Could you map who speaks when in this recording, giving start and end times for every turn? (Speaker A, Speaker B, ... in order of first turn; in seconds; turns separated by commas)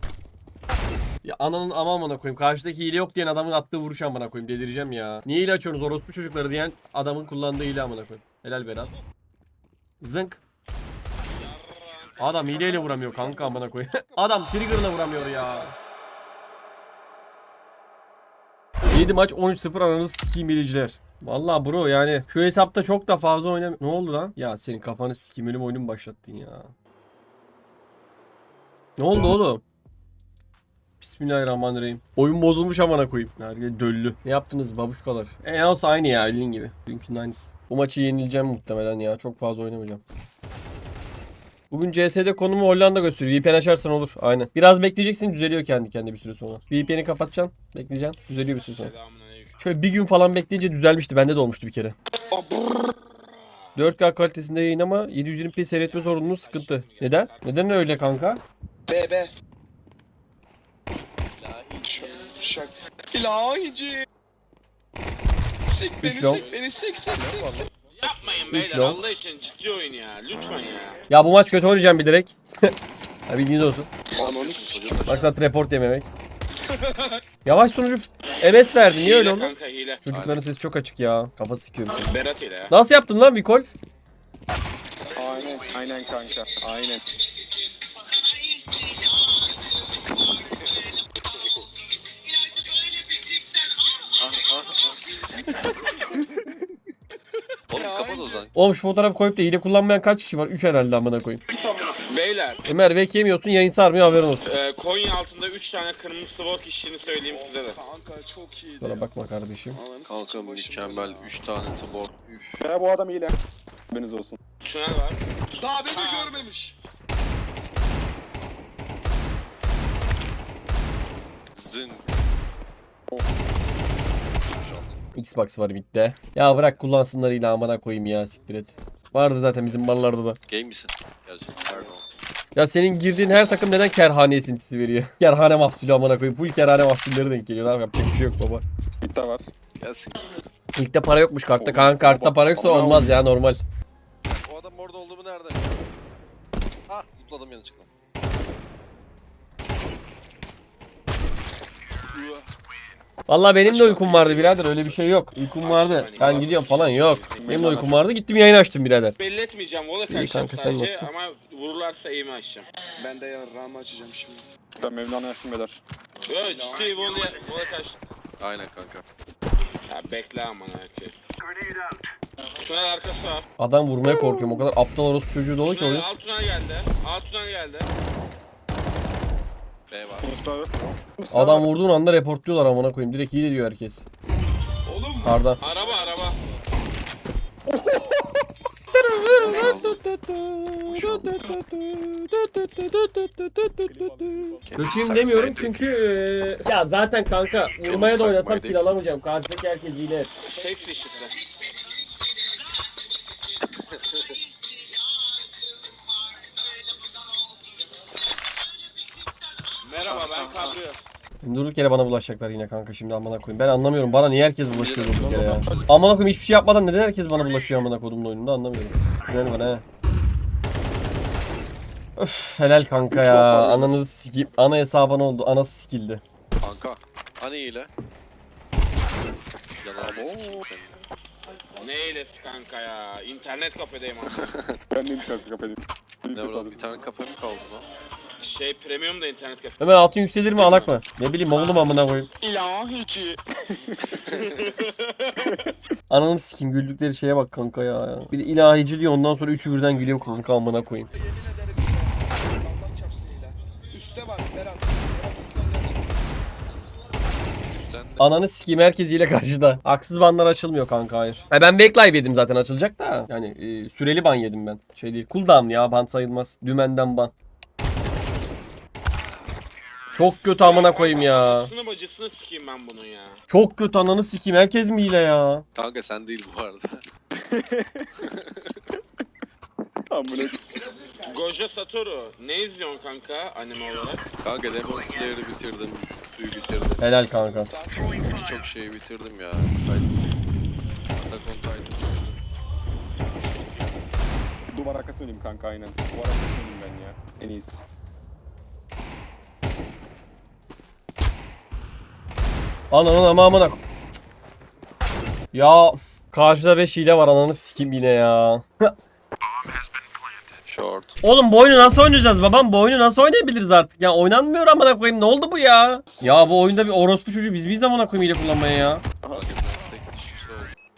Speaker A: 1.2-8.9, Speaker A: 10.0-10.4, Speaker B: 11.3-13.4, Speaker A: 12.2-15.7, Speaker C: 12.4-15.8, Speaker A: 18.9-26.7, Speaker A: 29.0-29.6, Speaker A: 31.0-40.0, Speaker A: 41.7-48.9, Speaker B: 48.6-49.6, Speaker A: 49.6-51.9, Speaker C: 52.3-53.2, Speaker A: 53.8-58.4, Speaker B: 55.8-58.0, Speaker C: 58.9-59.3, Speaker D: 61.3-62.3, Speaker C: 61.8-64.0, Speaker C: 65.7-67.7, Speaker A: 66.0-66.5, Speaker B: 66.3-66.5, Speaker E: 67.1-67.7, Speaker B: 68.0-71.0, Speaker A: 68.5-69.0, Speaker A: 71.1-72.7, Speaker A: 73.3-74.0, Speaker C: 74.1-75.0, Speaker D: 74.1-75.3, Speaker A: 75.0-76.1, Speaker A: 77.4-82.1, Speaker B: 78.9-80.0, Speaker D: 80.1-80.5, Speaker B: 81.9-82.7, Speaker A: 82.7-83.7, Speaker E: 85.1-87.0, Speaker B: 85.2-85.7, Speaker D: 94.2-95.0, Speaker D: 97.7-98.5, Speaker C: 97.7-98.5, Speaker A: 98.5-101.4, Speaker C: 101.5-102.0, Speaker B: 102.0-102.6, Speaker A: 102.7-104.5, Speaker B: 104.4-107.8, Speaker C: 107.2-109.1, Speaker A: 108.8-109.8, Speaker C: 109.7-111.3, Speaker D: 110.0-112.6, Speaker E: 112.6-113.3, Speaker E: 113.9-114.4, Speaker B: 114.6-115.2, Speaker C: 115.5-116.8, Speaker B: 115.9-116.5, Speaker D: 121.5-122.0, Speaker D: 124.5-125.0, Speaker A: 125.1-130.4, Speaker D: 130.5-132.0, Speaker A: 132.5-138.6, Speaker E: 139.0-139.5, Speaker D: 139.8-140.2, Speaker A: 140.7-143.6, Speaker E: 141.6-143.2, Speaker D: 144.2-145.8, Speaker D: 146.9-147.9, Speaker D: 152.1-152.5, Speaker A: 153.3-159.2, Speaker D: 153.6-155.2, Speaker B: 155.6-157.6, Speaker E: 157.4-158.0, Speaker B: 159.2-162.7, Speaker A: 160.1-161.1, Speaker C: 163.0-164.4, Speaker E: 164.8-165.8, Speaker B: 166.3-168.0, Speaker C: 166.4-167.4, Speaker D: 168.4-169.0, Speaker B: 169.9-171.2, Speaker B: 172.6-173.4, Speaker A: 173.6-176.1, Speaker B: 175.6-177.9, Speaker D: 179.9-180.3, Speaker E: 180.2-181.7, Speaker A: 181.3-184.0, Speaker C: 184.8-186.5, Speaker A: 185.2-185.6, Speaker B: 185.6-186.4, Speaker E: 187.7-188.4, Speaker A: 188.9-200.3, Speaker D: 189.4-190.0, Speaker D: 190.8-191.6, Speaker E: 193.8-194.7, Speaker D: 194.6-195.9, Speaker D: 197.8-198.9, Speaker B: 200.4-201.4, Speaker C: 200.4-201.2, Speaker B: 209.8-211.1, Speaker D: 210.1-210.8, Speaker A: 211.4-219.8, Speaker D: 214.7-215.8, Speaker E: 215.2-215.8, Speaker A: 222.2-226.2, Speaker E: 223.1-223.9, Speaker D: 226.6-227.9, Speaker D: 229.8-231.0, Speaker E: 230.0-230.7, Speaker B: 231.7-234.5, Speaker E: 234.9-236.9, Speaker D: 236.3-237.9, Speaker B: 238.4-239.9, Speaker A: 239.8-242.3, Speaker B: 241.6-241.8, Speaker C: 242.5-243.3, Speaker B: 244.3-245.7, Speaker A: 246.1-251.1, Speaker C: 251.1-256.2, Speaker D: 257.6-258.3, Speaker A: 258.2-267.3, Speaker A: 270.1-271.7, Speaker B: 270.5-273.4, Speaker A: 273.5-275.6, Speaker D: 275.7-277.0, Speaker E: 277.4-278.1, Speaker D: 278.2-278.7, Speaker E: 280.1-280.6, Speaker B: 281.2-284.2, Speaker D: 284.4-287.1, Speaker A: 287.0-287.7, Speaker C: 287.1-288.3, Speaker D: 288.1-290.1, Speaker D: 291.1-292.4, Speaker E: 294.7-297.8, Speaker A: 302.9-303.8, Speaker A: 305.5-308.9, Speaker D: 310.6-311.2, Speaker A: 311.2-319.0, Speaker D: 319.3-320.7